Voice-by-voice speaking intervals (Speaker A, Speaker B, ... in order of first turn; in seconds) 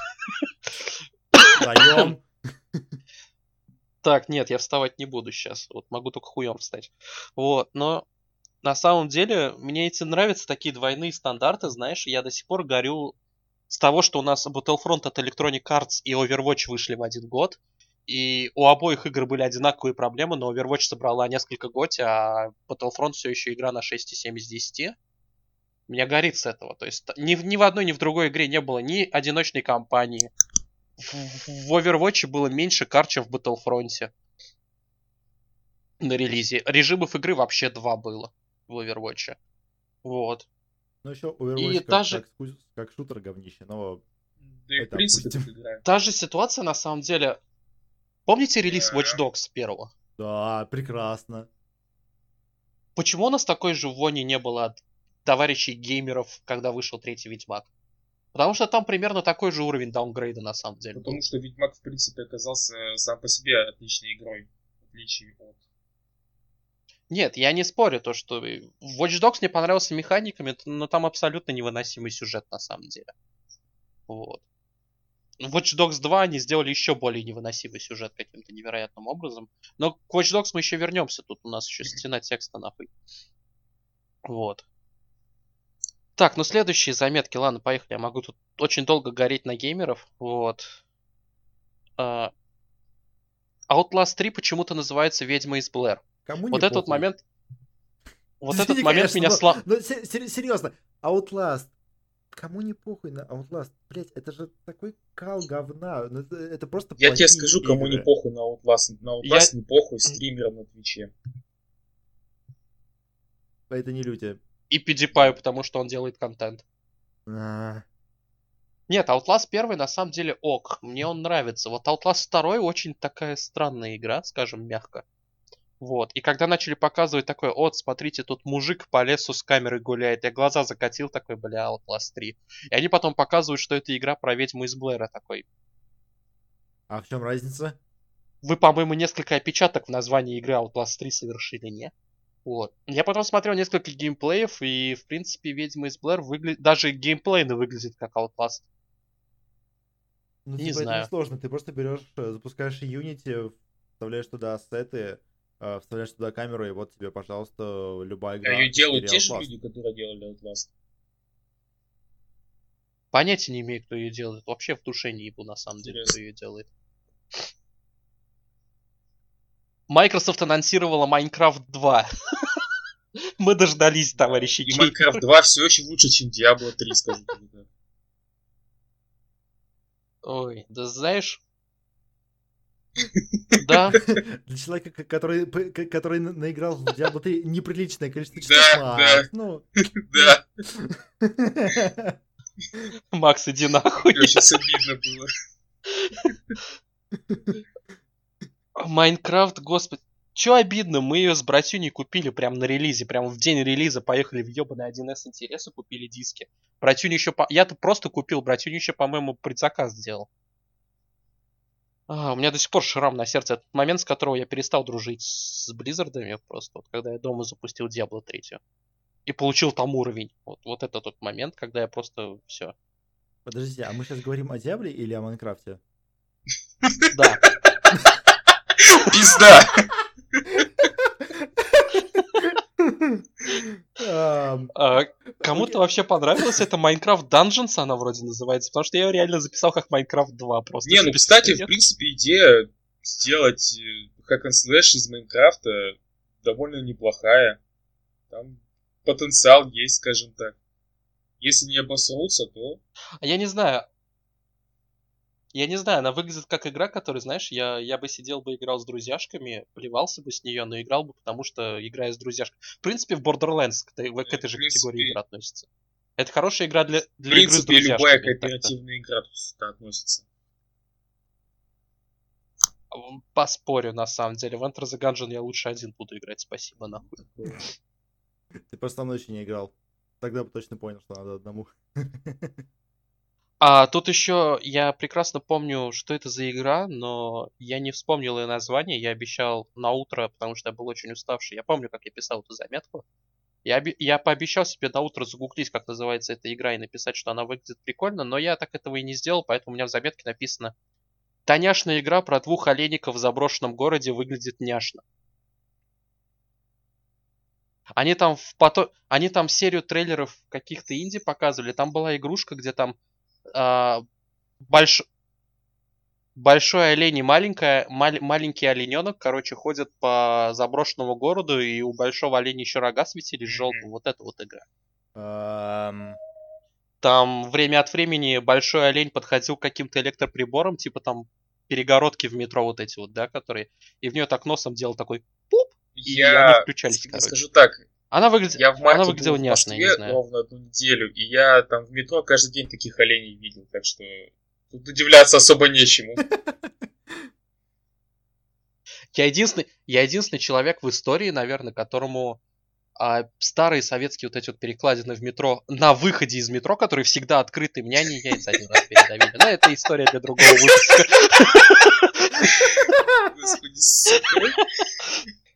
Speaker A: 1.4-2.1, 4.0-8.0, 8.6-13.1, 13.7-24.9, 25.9-30.3, 31.0-34.1, 36.0-39.4, 40.0-40.5, 41.6-42.2, 45.8-47.4, 48.3-49.9, 53.0-57.7, 58.3-61.2, 67.1-73.1, 74.1-74.4, 75.4-82.9, 84.2-84.6, 86.2-90.8, 92.0-92.3, 93.7-97.2, 98.4-99.6, 109.2-109.5, 114.7-116.6, 118.9-125.0, 125.8-135.4, 138.4-141.9, 142.4-148.6, 150.6-151.1, 163.1-166.7, 169.9-172.1, 173.4-175.1, 180.2-181.4, 183.6-184.0, 193.1-194.4, 198.8-210.3, 212.1-218.6, 219.3-222.7, 227.1-227.4, 234.7-241.7, 253.2-253.9, 255.5-265.6, 266.2-268.7, 272.9-277.1, 283.6-293.0, 293.6-300.7, 301.4-305.0, 308.0-312.9, 313.5-314.0, 314.7-315.0, 316.4-324.6, 327.0-337.4, 338.1-340.2, 349.1-352.4, 353.0-362.9
Speaker B: 1.6-2.9, 41.0-44.0, 44.8-45.5, 50.2-51.5, 96.2-97.0, 98.5-101.7, 102.3-108.1, 113.7-114.4, 117.3-117.8, 136.9-137.8, 150.4-159.5, 183.9-189.6, 190.7-192.2, 223.4-225.8, 231.6-231.9, 232.4-234.7, 235.4-235.8, 278.7-282.6, 325.1-326.2, 346.3-347.3
Speaker C: 44.4-45.8, 48.7-49.2, 60.9-65.6, 107.0-111.1, 158.4-160.7, 165.8-166.2, 174.1-177.7, 183.0-183.7, 188.3-189.3, 190.0-190.4, 194.0-195.3, 228.8-229.8, 240.8-247.6, 248.3-250.5, 251.4-252.8, 264.2-265.2, 267.3-270.2, 277.1-277.6, 323.5-323.9, 335.9-337.9, 338.5-346.2, 362.6-364.6